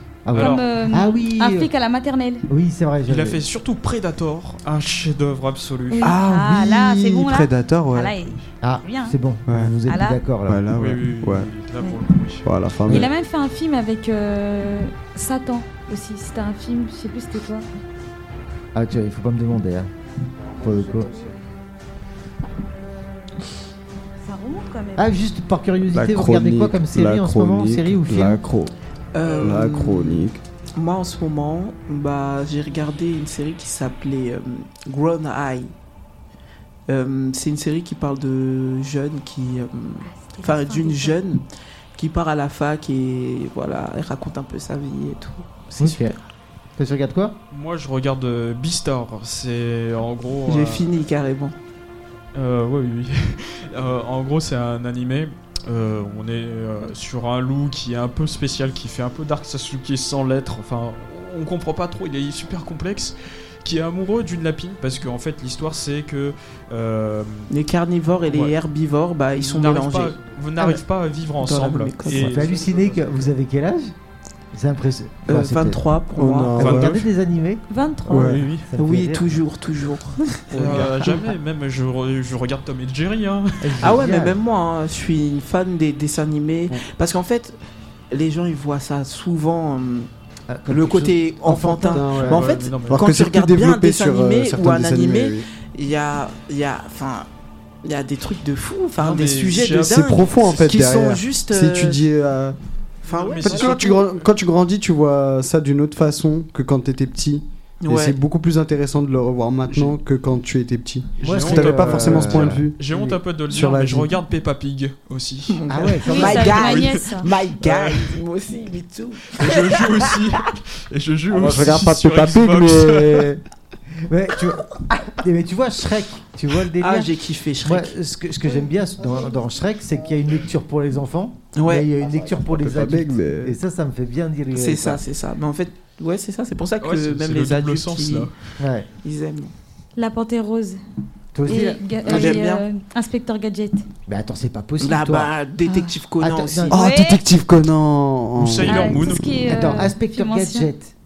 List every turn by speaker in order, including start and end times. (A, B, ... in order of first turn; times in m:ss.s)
0:00.2-0:01.7 A
0:00.3-0:00.6 B
0:00.3-0:02.5 C
0:02.5-0:03.4 A
0:03.0-0:06.2 B
0:05.9-0:09.2 C
0:06.0-0:08.2 D
0:08.6-0:10.6 A
0:09.5-0:09.8 D
0:09.9-0:10.2 C
0:10.5-0:11.5 D
0:10.7-0:12.4 B
0:12.4-0:13.1 D
0:12.9-0:17.6 C
0:18.7-0:19.9 A
0:20.5-0:21.2 A
0:24.2-0:25.2 C
0:25.0-0:28.4 A
0:25.9-0:28.7 D
0:29.1-0:35.7 E
0:29.2-0:30.4 D
0:36.9-0:41.4 E
0:40.0-0:41.2 C
0:41.9-0:46.2 E
0:45.8-0:46.2 A
0:46.8-0:47.4 A
0:47.5-0:50.9 B
0:50.5-0:51.6 E
0:52.3-1:07.5 B
1:07.5-1:10.2 E
1:08.3-1:08.5 B
1:09.4-1:12.7 B
1:11.4-1:12.4 E
1:12.1-1:13.9 A
1:14.5-1:15.8 A
1:15.3-1:16.8 E
1:16.2-1:17.0 D
1:16.6-1:19.4 A
1:16.6-1:16.9 B
1:17.7-1:18.4 C
1:18.1-1:18.5 D
1:18.1-1:18.7 B
1:18.8-1:21.2 E
1:20.5-1:23.9 B
1:23.6-1:24.4 A
1:23.8-1:27.6 E
1:28.1-1:30.1 E
1:30.5-1:32.5 A
1:30.7-1:37.3 E
1:31.9-1:35.5 D
1:32.2-1:33.0 B
1:37.8-1:42.0 E
1:39.0-1:40.2 B
1:39.9-1:42.6 D
1:43.0-1:44.0 E
1:43.1-1:44.0 B
1:43.4-1:54.2 D
1:47.8-1:48.2 E
1:51.2-1:58.1 B
1:51.2-1:52.6 A
1:55.5-2:00.3 E
1:55.7-1:56.6 A
1:56.0-1:57.3 C
1:59.4-2:03.3 B
2:01.3-2:03.4 D
2:04.0-2:07.1 A
2:06.8-2:07.9 E
2:07.6-2:15.0 A
2:11.5-2:11.9 E
2:12.5-2:13.6 D
2:14.5-2:18.3 E
2:16.8-2:18.4 B
2:18.6-2:18.9 A
2:19.0-2:19.5 E
2:20.0-2:20.8 C
2:21.3-2:22.4 A
2:21.4-2:23.8 C
2:22.0-2:22.6 E
2:24.1-2:25.3 A
2:24.8-2:26.8 E
2:25.6-2:25.9 C
2:26.2-2:26.8 A
2:26.7-2:29.1 D
2:26.7-2:27.2 C
2:28.4-2:29.2 B
2:28.6-2:30.7 C
2:29.4-2:30.9 A